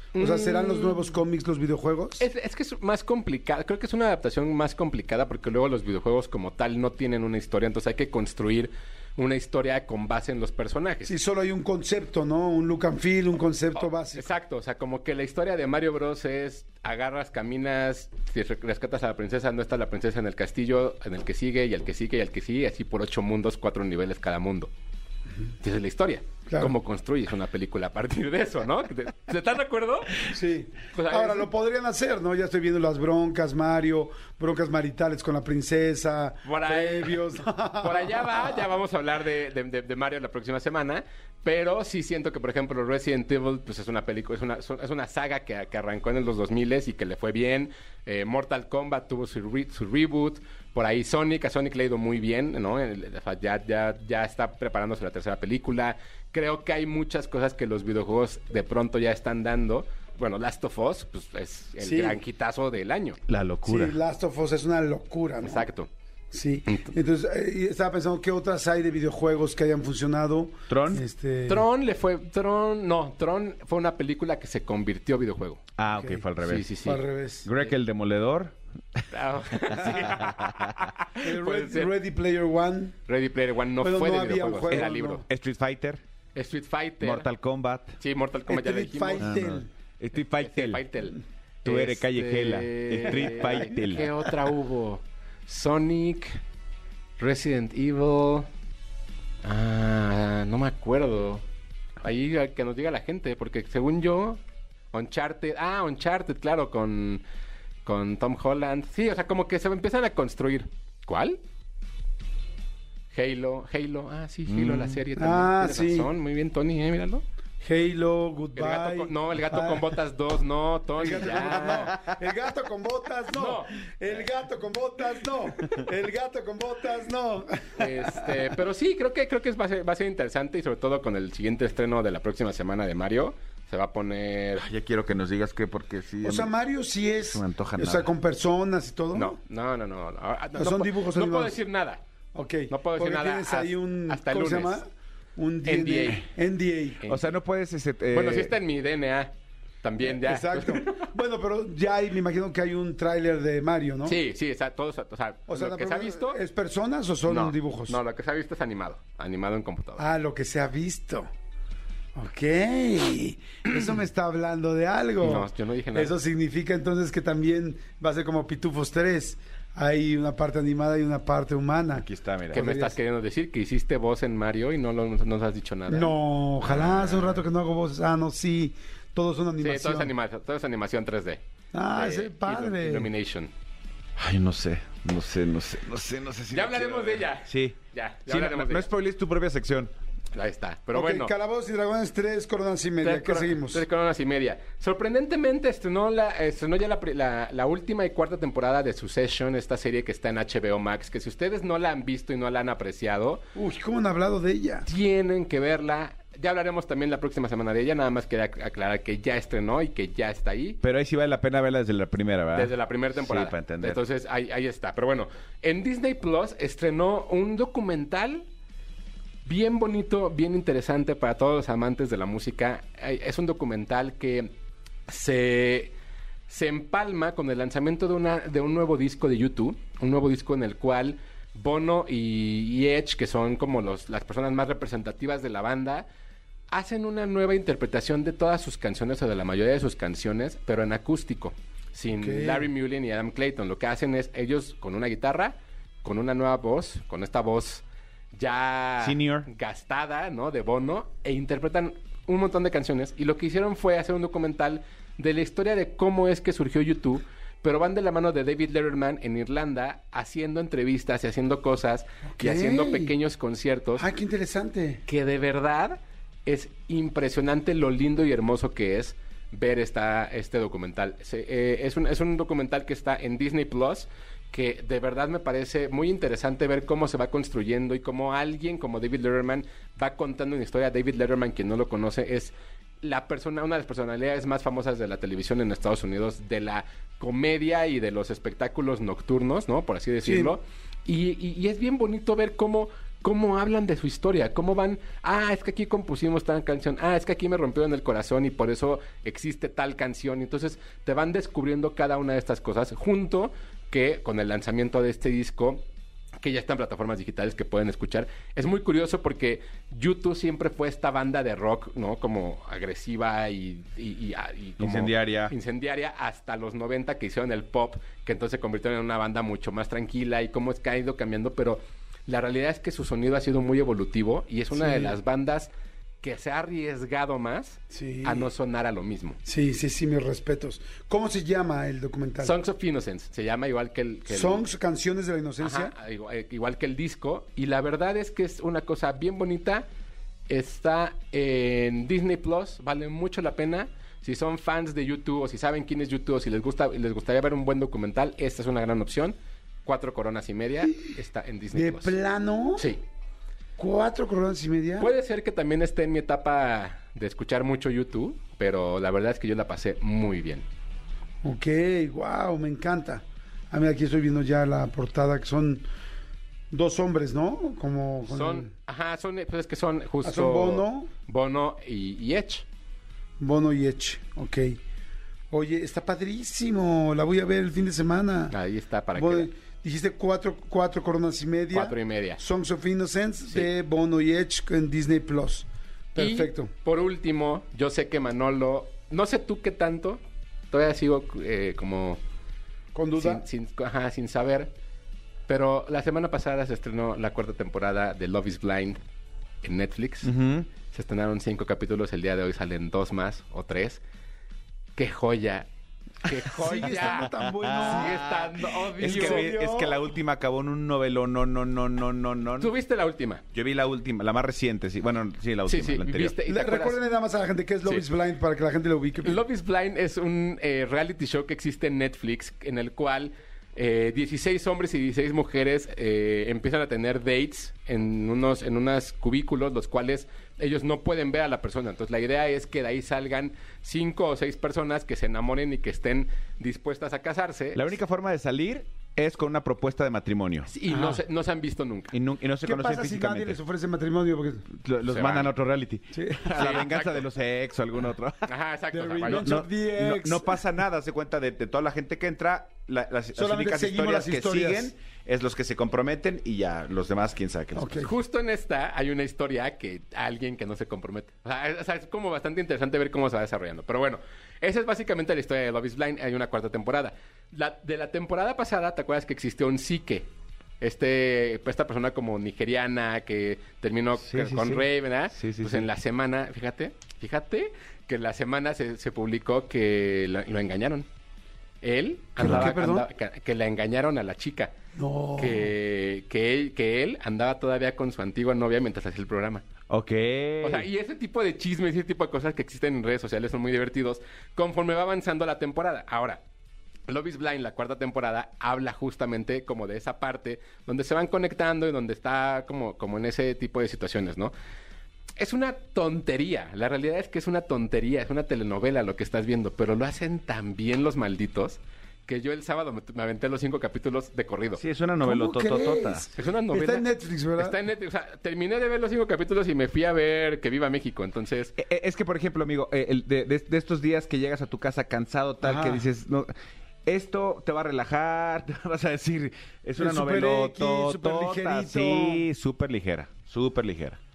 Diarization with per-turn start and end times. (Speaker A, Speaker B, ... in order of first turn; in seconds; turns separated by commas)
Speaker A: 0.1-1.2, Speaker B: 0.2-2.2, Speaker A: 2.2-11.1, Speaker B: 11.1-14.3, Speaker A: 13.8-24.7, Speaker A: 25.6-30.3, Speaker B: 26.5-26.7, Speaker B: 30.3-38.6, Speaker A: 30.9-31.5, Speaker A: 36.4-37.2, Speaker A: 37.8-63.2, Speaker B: 61.8-62.2, Speaker C: 63.3-64.0, Speaker B: 63.6-65.7, Speaker A: 65.4-65.9, Speaker B: 66.3-71.7, Speaker C: 70.7-71.0, Speaker A: 71.5-75.6, Speaker C: 75.8-76.7, Speaker B: 75.9-76.2, Speaker A: 76.4-77.0, Speaker B: 76.8-77.5, Speaker C: 77.4-78.6, Speaker A: 79.1-81.9, Speaker C: 79.8-80.8, Speaker B: 81.2-83.0, Speaker A: 83.1-85.2, Speaker B: 83.8-85.2, Speaker C: 84.7-86.0, Speaker A: 86.3-87.3, Speaker C: 87.0-88.0, Speaker A: 88.0-89.4, Speaker B: 88.5-89.7, Speaker C: 89.2-90.8, Speaker A: 90.4-96.4, Speaker C: 91.6-94.0, Speaker A: 97.2-98.5, Speaker A: 99.4-101.4, Speaker A: 102.0-104.4, Speaker A: 104.9-107.2, Speaker A: 107.8-111.4, Speaker A: 113.1-117.2, Speaker C: 114.5-115.0, Speaker B: 115.1-116.1, Speaker B: 117.6-119.8, Speaker A: 118.5-122.0, Speaker B: 121.0-128.4, Speaker A: 123.3-123.8, Speaker A: 127.8-134.7, Speaker C: 134.6-136.5, Speaker B: 136.2-139.3, Speaker C: 137.3-138.1, Speaker A: 139.1-142.0, Speaker B: 140.6-141.5, Speaker B: 142.3-144.8, Speaker A: 142.7-144.8, Speaker B: 145.4-147.0, Speaker A: 145.6-146.2, Speaker A: 147.0-147.3, Speaker C: 147.1-148.6, Speaker A: 148.1-149.3, Speaker A: 149.8-151.1, Speaker B: 150.0-154.2, Speaker A: 154.1-156.4, Speaker B: 155.5-158.0, Speaker A: 157.2-160.0, Speaker B: 160.0-161.3, Speaker B: 162.2-172.9, Speaker A: 165.2-166.1, Speaker C: 171.9-172.6, Speaker A: 172.5-176.1, Speaker B: 175.9-180.1, Speaker A: 176.7-177.4, Speaker A: 179.6-181.4, Speaker B: 181.7-183.1, Speaker A: 181.9-183.5, Speaker C: 184.2-189.9, Speaker A: 186.5-188.9, Speaker A: 190.3-191.3, Speaker B: 190.9-193.8, Speaker A: 193.0-203.4, Speaker B: 203.5-204.8, Speaker A: 204.8-210.8, Speaker C: 210.8-214.0, Speaker A: 212.5-218.4, Speaker A: 219.4-224.5, Speaker A: 225.1-225.9, Speaker A: 226.5-236.1, Speaker A: 236.7-264.1, Speaker B: 242.2-242.7, Speaker C: 249.0-249.5, Speaker B: 262.3-263.1, Speaker B: 264.0-265.0, Speaker A: 265.1-305.8, Speaker B: 290.2-290.5, Speaker A: 306.4-325.7, Speaker C: 314.8-315.5, Speaker B: 324.7-325.1, Speaker A: 326.2-329.4, Speaker B: 327.9-328.5, Speaker B: 329.4-332.5, Speaker A: 332.4-334.6, Speaker B: 334.3-335.9, Speaker A: 335.6-339.9, Speaker A: 340.5-352.1, Speaker B: 351.7-352.9, Speaker A: 352.8-353.0, Speaker B: 353.8-355.1, Speaker A: 355.0-360.6, Speaker B: 361.4-365.9, Speaker B: 366.7-368.7, Speaker A: 368.3-372.6, Speaker B: 370.2-371.1, Speaker B: 373.4-374.8, Speaker B: 375.5-378.5, Speaker A: 378.5-379.5, Speaker B: 379.1-386.7, Speaker A: 381.7-382.4, Speaker A: 386.2-390.2, Speaker A: 390.7-392.2, Speaker B: 392.9-393.4, Speaker A: 393.1-394.7, Speaker A: 395.5-399.0, Speaker A: 399.6-400.3, Speaker C: 400.2-400.7, Speaker A: 400.9-404.0, Speaker A: 404.9-405.7, Speaker A: 406.2-409.5, Speaker B: 406.5-408.4, Speaker C: 407.6-408.4, Speaker B: 409.0-410.0, Speaker C: 409.0-412.7, Speaker A: 412.6-413.4, Speaker C: 413.5-416.4, Speaker A: 415.6-417.0, Speaker B: 416.4-419.4, Speaker A: 419.2-437.8, Speaker C: 437.7-440.7, Speaker A: 440.6-442.1, Speaker B: 440.9-441.2, Speaker C: 442.1-443.6, Speaker B: 442.6-444.7, Speaker C: 444.7-448.5, Speaker A: 445.1-445.5, Speaker B: 446.1-446.7, Speaker A: 446.5-447.3, Speaker A: 448.5-449.6, Speaker B: 448.9-450.6, Speaker C: 449.2-458.1, Speaker B: 453.4-454.9, Speaker B: 457.7-458.1, Speaker A: 458.0-470.3, Speaker A: 470.8-481.1, Speaker C: 474.2-475.9, Speaker A: 481.8-484.7, Speaker B: 482.4-483.1, Speaker B: 484.9-485.7, Speaker A: 485.4-489.6, Speaker C: 489.9-490.9, Speaker A: 490.6-496.4, Speaker A: 497.1-504.5, Speaker A: 505.4-514.8, Speaker C: 514.8-516.3, Speaker B: 515.2-517.8, Speaker A: 516.4-521.7, Speaker C: 521.8-526.5, Speaker B: 525.6-526.0, Speaker C: 527.0-534.2, Speaker B: 530.0-532.4